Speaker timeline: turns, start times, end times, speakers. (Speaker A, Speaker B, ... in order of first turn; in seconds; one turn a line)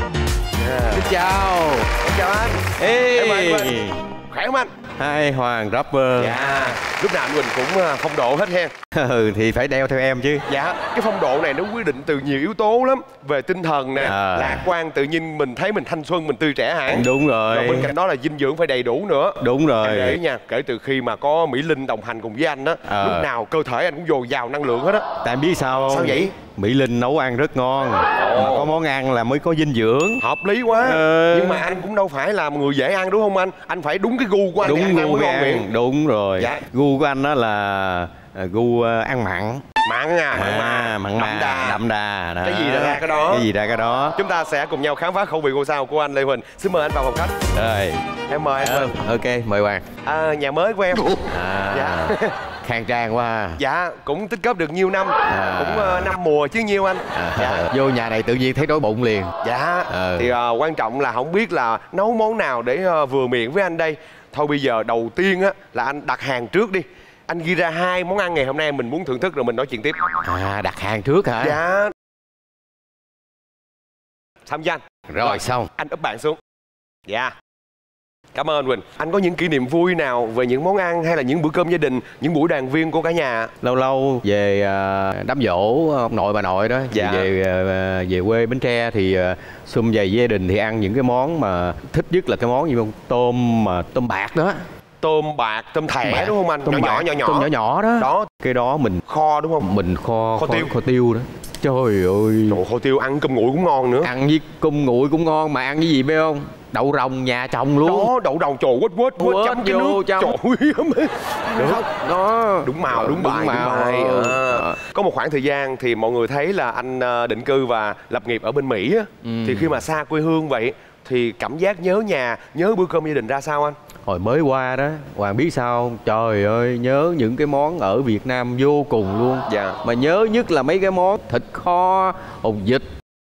Speaker A: 0.6-1.1
Speaker B: 0.9-1.9
Speaker A: 2.0-3.8
Speaker B: 2.8-4.0
Speaker A: 4.3-4.7
Speaker B: 5.0-6.4
Speaker A: 6.2-8.7
Speaker B: 8.9-10.5
Speaker A: 10.5-25.1
Speaker B: 14.0-14.7
Speaker B: 16.9-17.9
Speaker B: 19.4-20.2
Speaker B: 22.9-23.3
Speaker B: 25.2-30.2
Speaker A: 25.9-26.3
Speaker A: 28.2-28.7
Speaker A: 30.2-35.7
Speaker B: 30.8-31.6
Speaker B: 34.6-39.6
Speaker A: 36.4-36.6
Speaker A: 39.9-41.8
Speaker B: 40.3-44.2
Speaker A: 42.4-43.5
Speaker A: 44.2-47.4
Speaker B: 47.5-49.9
Speaker A: 48.3-49.0
Speaker A: 50.0-52.4
Speaker B: 51.3-53.6
Speaker A: 53.6-57.7
Speaker B: 55.3-56.1
Speaker B: 57.1-59.3
Speaker A: 59.4-70.0
Speaker B: 59.9-60.3
Speaker B: 70.2-71.6
Speaker A: 71.4-71.9
Speaker A: 74.5-76.4
Speaker B: 75.1-75.7
Speaker A: 77.1-77.3
Speaker A: 78.3-83.5
Speaker B: 83.6-94.6
Speaker A: 86.9-87.3
Speaker A: 95.0-98.3
Speaker B: 96.0-99.0
Speaker A: 99.1-99.7
Speaker B: 99.6-102.6
Speaker A: 100.4-100.7
Speaker A: 102.5-104.1
Speaker B: 104.0-108.1
Speaker A: 107.8-111.8
Speaker B: 109.2-110.3
Speaker B: 111.5-114.8
Speaker A: 112.6-123.8
Speaker B: 119.2-119.8
Speaker B: 124.1-132.9
Speaker A: 129.5-129.8